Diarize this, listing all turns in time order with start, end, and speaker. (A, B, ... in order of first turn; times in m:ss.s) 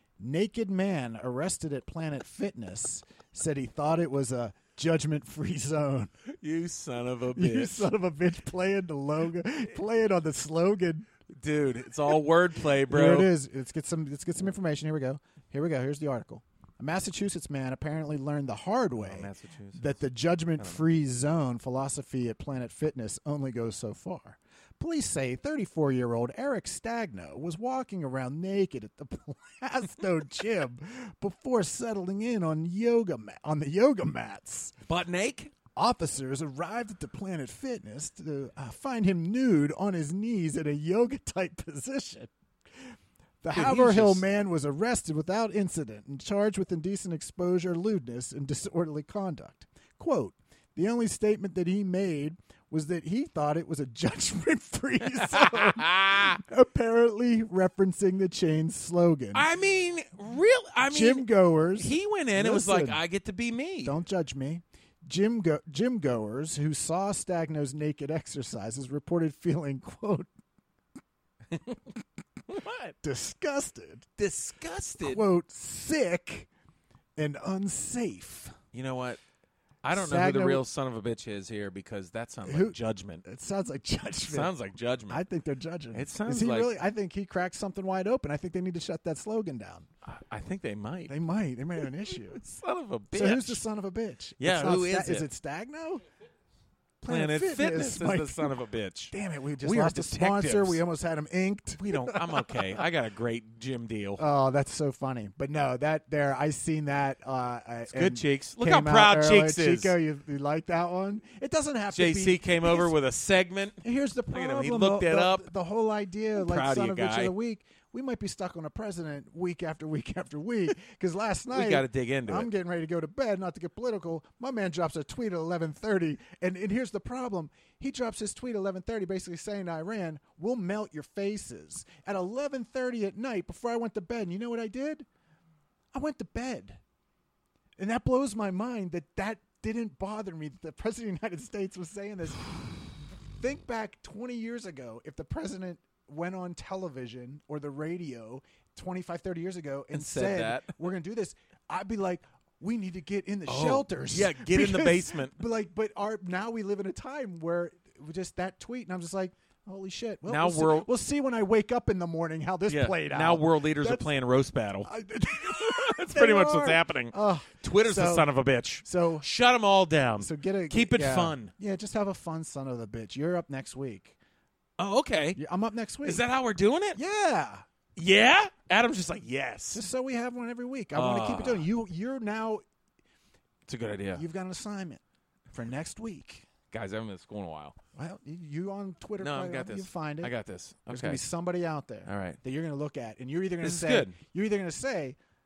0:00.2-0:06.1 A
0:06.3-0:07.9 B
0:07.4-0:11.1 A
0:11.3-0:13.3 B
0:12.8-0:34.8 A
0:19.0-0:20.0 B
0:20.6-0:20.9 B
0:34.9-0:35.5 B
0:35.8-0:42.3 A
0:43.4-0:59.5 A
0:43.5-0:44.2 B
0:55.1-0:56.4 B
0:59.3-1:03.9 B
1:00.9-1:03.0 A
1:03.8-1:10.3 A
1:11.5-1:11.8 B
1:12.5-1:12.9 B
1:13.0-1:14.1 A
1:14.2-1:15.2 B
1:15.0-1:16.5 A
1:17.2-1:18.6 A
1:18.7-1:19.2 B
1:19.8-1:23.2 B
1:19.9-1:20.6 A
1:22.4-1:24.5 A
1:24.3-1:25.2 B
1:25.1-1:29.9 A
1:25.9-1:26.7 B
1:30.0-1:31.1 B
1:31.1-1:32.4 A
1:31.8-1:33.6 B
1:33.1-1:36.0 A
1:34.4-1:35.3 B
1:37.0-1:38.5 A
1:37.1-1:40.8 B
1:39.1-1:42.8 A
1:41.8-1:44.2 B
1:44.2-1:52.9 A
1:47.9-1:50.0 B
1:51.9-1:55.5 B
1:53.8-2:15.1 A
1:56.4-1:57.3 B
2:01.5-2:02.5 B
2:15.9-2:16.8 A
2:17.8-2:44.1 A
2:29.9-2:30.8 B
2:33.5-2:35.3 B
2:40.3-2:40.9 B
2:42.7-2:51.5 B
2:44.8-2:48.3 A
2:48.8-2:49.3 A
2:50.2-2:54.2 A
2:54.8-2:55.4 B
2:55.4-2:56.2 A
2:56.0-2:57.0 B
2:57.0-2:57.6 A
2:58.0-2:59.8 B
2:59.7-3:02.6 A
3:00.9-3:01.7 B
3:03.7-3:04.2 B
3:04.2-3:05.0 A
3:05.5-3:06.5 A
3:06.7-3:07.8 B
3:08.0-3:10.3 A
3:09.2-3:11.2 B
3:10.9-3:15.2 A
3:12.1-3:12.4 B
3:13.6-3:14.2 B